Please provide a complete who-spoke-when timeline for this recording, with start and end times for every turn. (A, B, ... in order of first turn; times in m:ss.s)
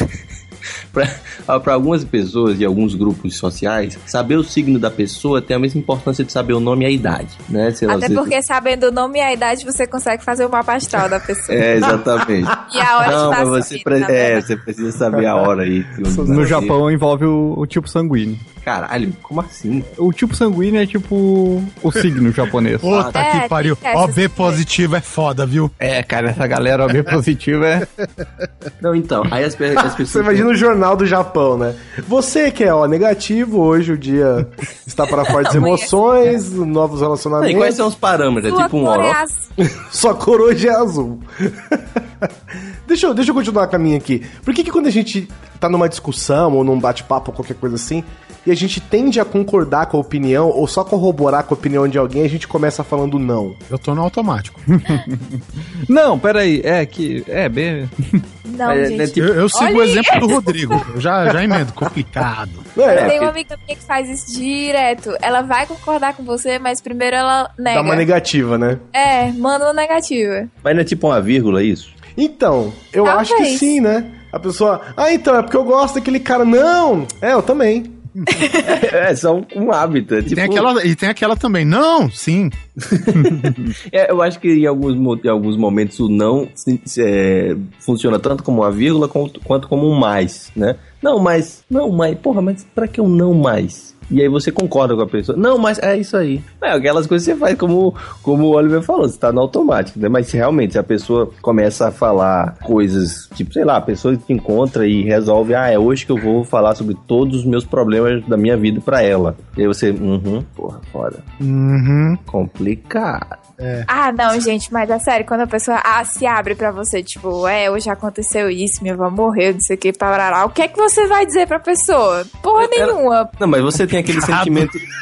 0:00.9-0:08.3 A
0:07.9-0:11.9 B
0:11.5-0:16.8 A
0:12.7-0:14.5 B
0:16.1-0:16.5 C
0:16.2-0:18.4 D
0:18.6-0:19.9 A
0:20.0-0:23.0 D
0:22.8-0:25.7 E
0:22.9-0:23.3 A
0:23.1-0:24.6 B
0:25.8-0:27.9 D
0:28.8-0:30.5 A
0:30.0-0:37.8 C
0:35.4-0:35.9 B
0:37.4-0:39.2 A
0:38.5-0:39.4 B
0:39.8-0:42.3 C
0:42.9-0:53.6 C
0:53.7-0:54.6 E
0:54.7-0:58.2 D
0:58.5-1:00.8 B
0:58.7-0:59.3 A
0:59.2-1:02.7 E
1:02.8-1:03.2 C
1:02.9-1:08.1 B
1:02.9-1:03.4 A
1:07.7-1:08.8 C
1:08.9-1:10.5 B
1:10.6-1:11.9 A
1:12.2-1:18.0 C
1:13.0-1:13.7 B
1:18.6-1:20.7 A
1:20.3-1:22.6 E
1:22.9-1:51.2 A
1:23.2-1:23.7 D
1:51.4-1:52.2 E
1:52.3-1:53.4 A
1:53.6-1:53.9 E
1:53.9-2:03.3 B
2:02.6-2:04.8 A
2:04.2-2:04.7 E